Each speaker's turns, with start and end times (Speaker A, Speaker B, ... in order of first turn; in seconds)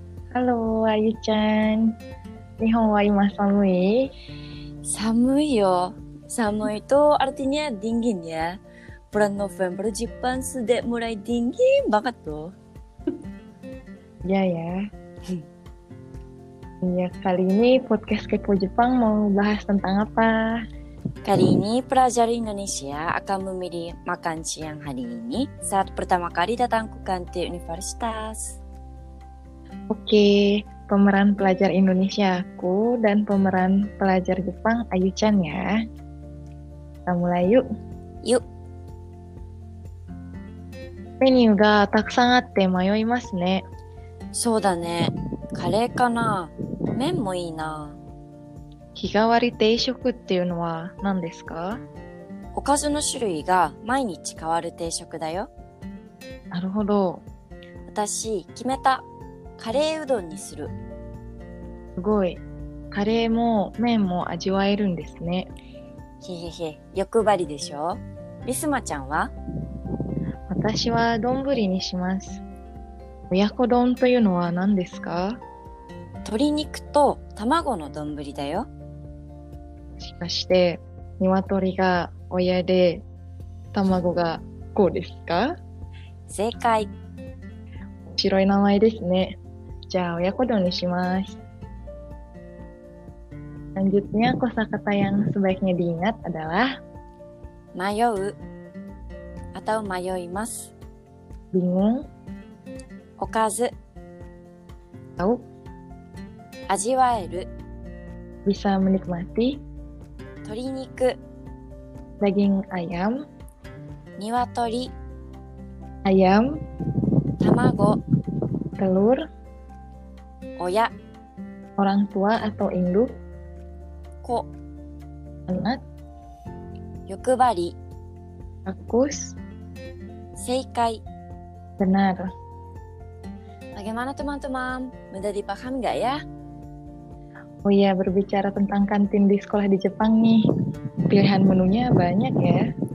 Speaker A: 0.3-2.0, 2.6-4.1, 14.2-14.8, 16.8-20.6, 29.9-35.7, 37.1-37.6, 41.2-43.6, 49.0-51.8, 56.5-57.2, 62.0-65.5, 70.5-72.4, 73.3-75.4, 80.0-83.0, 83.7-85.5, 88.2-89.4, 89.9-91.4, 93.8-96.7, 101.5-102.0, 108.5-109.6, 112.2-113.2, 116.0-116.4, 118.8-119.2, 121.8-123.1, 125.5-125.8, 128.7-129.4, 131.8-132.3, 137.7-140.4, 141.1-142.6
Speaker B: 4.8-8.6, 9.1-12.6, 21.2-28.6, 44.4-48.0, 52.5-55.5, 57.9-59.0, 59.6-60.7, 66.2-69.3, 76.2-78.7, 86.3-86.9, 97.8-98.4, 99.5-100.7, 103.2-103.7, 106.7-107.5, 110.5-111.2, 114.2-114.9, 117.4-118.0, 120.6-120.9, 124.2-124.5, 127.1-127.8, 130.4-131.0, 133.8-136.2